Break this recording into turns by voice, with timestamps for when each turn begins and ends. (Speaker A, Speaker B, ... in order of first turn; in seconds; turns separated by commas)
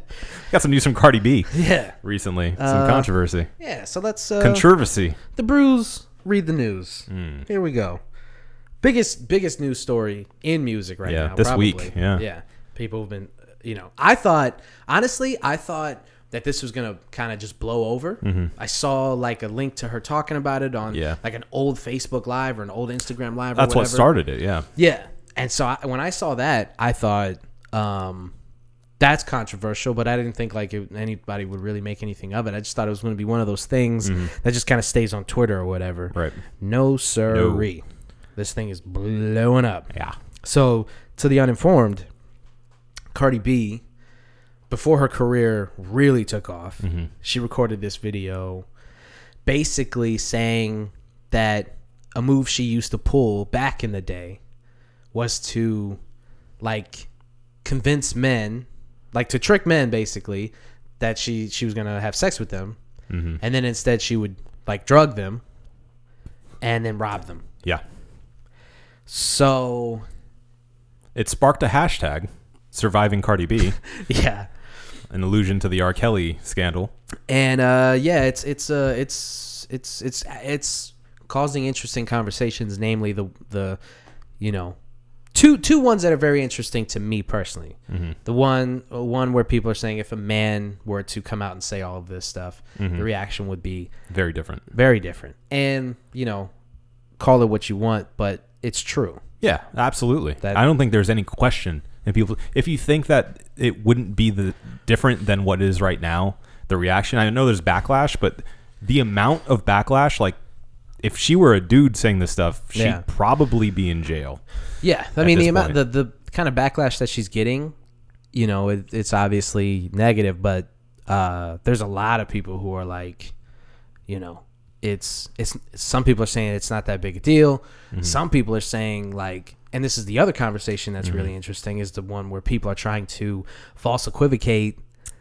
Speaker A: 0.5-3.5, Speaker B: 1.5-1.9, Speaker B: 2.6-4.7, Speaker A: 4.4-5.2, Speaker B: 5.3-8.0, Speaker A: 7.1-7.5, Speaker B: 8.8-24.1, Speaker A: 11.1-12.2, Speaker A: 18.2-18.5, Speaker A: 20.9-21.2, Speaker A: 23.6-24.6, Speaker B: 24.8-28.3, Speaker B: 29.0-37.8, Speaker A: 34.0-34.3, Speaker A: 36.1-36.4, Speaker A: 37.3-37.6, Speaker B: 38.4-39.9, Speaker A: 39.9-40.2, Speaker B: 40.4-42.1, Speaker B: 43.1-43.8, Speaker B: 44.7-48.6, Speaker A: 46.8-47.1, Speaker B: 49.5-54.4, Speaker B: 55.1-56.0, Speaker B: 56.6-57.1, Speaker B: 57.6-62.8, Speaker A: 63.1-63.4, Speaker B: 63.4-65.4, Speaker B: 66.6-67.4, Speaker B: 69.1-70.0, Speaker A: 71.1-73.8, Speaker B: 73.9-74.5, Speaker A: 75.1-76.9, Speaker B: 77.3-83.8, Speaker B: 84.4-84.8, Speaker B: 85.3-93.9, Speaker A: 87.9-88.2, Speaker A: 92.8-93.1, Speaker A: 94.1-94.7, Speaker B: 94.7-96.5, Speaker B: 97.2-99.2, Speaker A: 99.4-110.4, Speaker A: 111.0-114.4, Speaker B: 112.7-113.0, Speaker B: 114.8-117.7, Speaker A: 115.2-115.8, Speaker B: 118.3-123.3, Speaker B: 124.1-134.8, Speaker A: 131.0-131.3